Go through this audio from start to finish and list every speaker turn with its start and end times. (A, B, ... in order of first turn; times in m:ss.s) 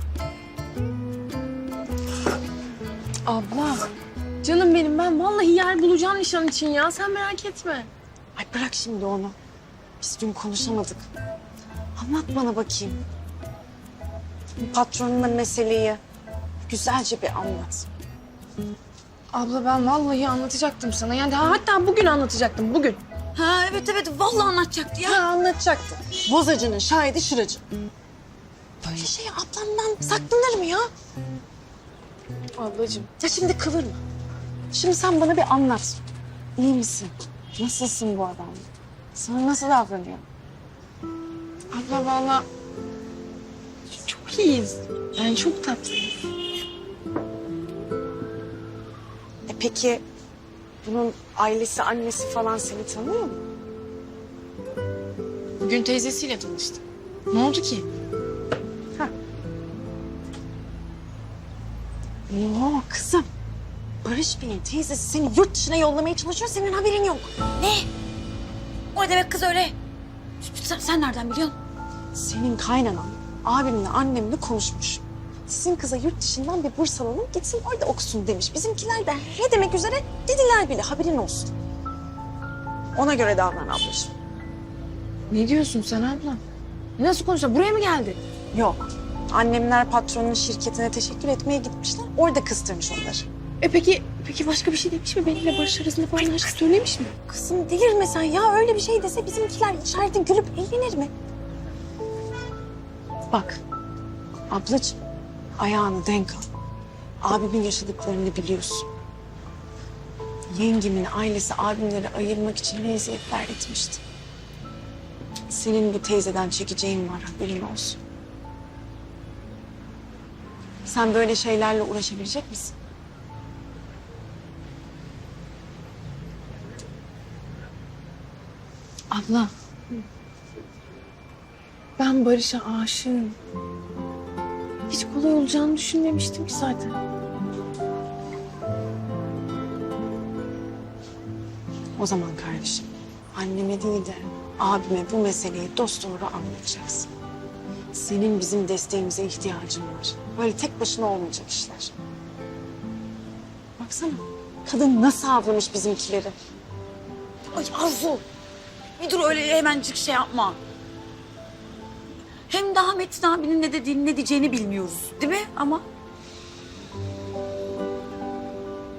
0:03.2-0:03.9 A
0:04.4-0:07.9 A
0:08.4-0:09.4 B
0:10.0-0:11.1 B
0:12.0-0:13.0 B
0:14.6-0:16.0 B
0:16.7-0:17.9 B
0:19.3-0:23.0 A
0:23.3-0:25.2 C
0:25.0-0:27.7 B
0:28.8-0:30.9 B
0:32.6-0:33.1 A
0:33.2-0:34.0 B
0:34.7-0:36.0 B
0:36.6-0:40.2 B
0:41.7-0:42.4 A
0:44.0-0:46.1 A
0:49.5-0:50.0 B
0:50.8-0:53.4 B
0:55.6-0:57.8 A
1:02.3-1:03.3 B
1:04.0-1:07.3 B
1:07.6-1:07.9 C
1:08.9-1:09.7 C
1:10.4-1:11.5 C
1:12.1-1:21.5 B
1:22.9-1:24.1 B
1:25.3-1:26.4 A
1:27.0-1:28.2 A
1:28.5-1:33.3 B
1:33.6-1:37.1 A
1:36.2-1:36.5 B
1:37.2-1:41.1 B
1:43.3-1:43.6 B
1:44.5-1:45.0 B
1:45.6-1:46.5 B
1:47.2-1:48.9 B
1:50.5-1:54.0 B
1:55.5-1:58.0 B
2:00.8-2:02.7 B
2:09.1-2:09.5 A
2:12.0-2:13.4 A
2:14.9-2:16.9 A
2:22.0-2:27.1 B
2:27.9-2:32.0 B
2:33.8-2:36.3 B
2:37.6-2:38.2 B
2:37.6-2:38.1 C
2:39.0-2:40.6 C
2:42.5-2:45.8 C